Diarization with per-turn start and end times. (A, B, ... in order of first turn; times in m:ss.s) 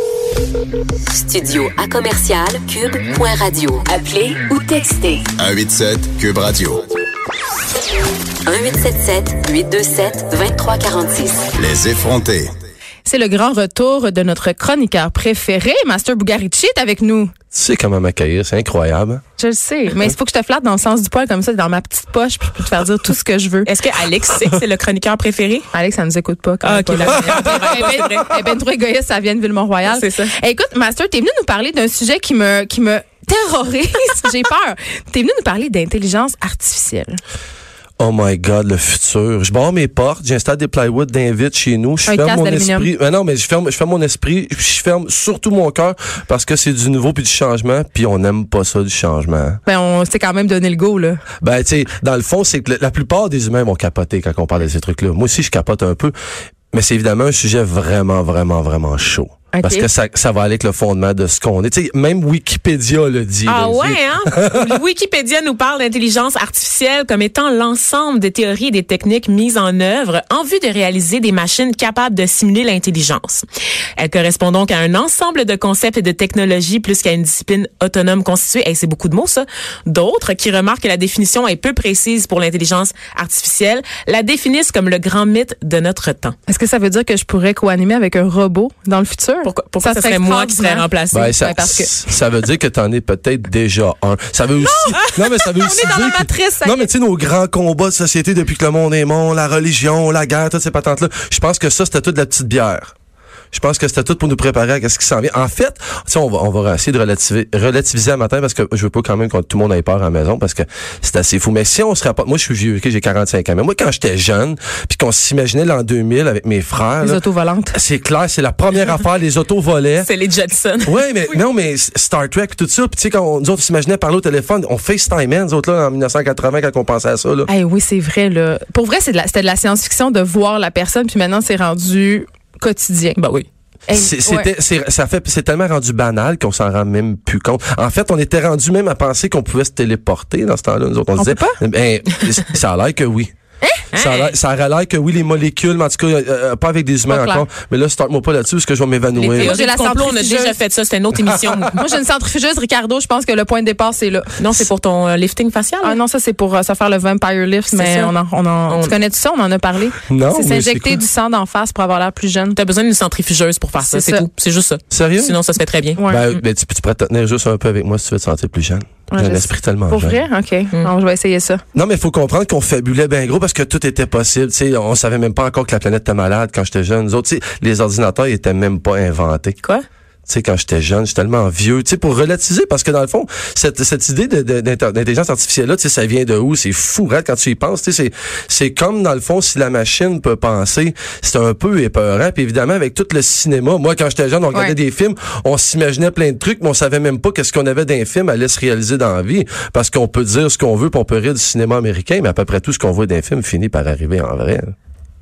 0:01.1-0:05.3 A
0:05.4-0:06.9 B
0:08.5-0:11.5 A
0:11.5-0:12.5 B
0:13.0-0:17.3 C
0:17.5-0:19.2 D
0:19.4-0:23.7 C
0:23.7-0:25.7 E
0:25.7-0:37.2 C
0:26.6-0:28.4 E
0:27.3-0:28.0 D
0:29.9-0:30.3 E
0:38.0-0:49.6 D
0:42.1-0:42.9 C
0:49.7-0:51.2 C
0:51.4-0:56.1 D
0:56.7-1:04.8 D
0:59.5-0:59.9 C
1:03.5-1:13.4 E
1:14.0-1:26.4 E
1:26.5-1:30.8 C
1:29.4-1:31.4 E
1:31.1-1:42.9 D
1:31.4-1:31.9 C
1:34.6-1:36.9 C
1:43.5-1:57.2 D
1:57.0-1:57.8 C
1:57.7-2:00.1 D
2:00.0-2:01.0 E
2:00.8-2:07.5 D
2:07.5-2:13.2 C
2:13.2-2:13.4 E
2:13.9-2:14.5 C
2:13.9-2:23.3 D
2:21.2-2:21.6 C
2:23.9-2:24.4 E
2:23.9-2:29.6 D
2:27.1-2:27.4 C
2:29.2-2:31.8 E
2:29.3-2:30.6 C
2:31.1-2:31.8 D
2:31.8-2:34.3 C
2:34.4-2:36.0 E
2:35.8-2:42.6 C
2:37.7-2:38.1 E
2:38.7-2:38.9 E
2:40.1-2:41.0 D
2:42.5-2:46.1 E
2:43.8-2:44.2 C
2:44.9-2:45.4 D
2:46.0-2:46.2 C
2:46.1-2:50.2 D
2:49.1-2:51.6 C
2:51.7-2:59.6 D
3:00.3-3:24.7 D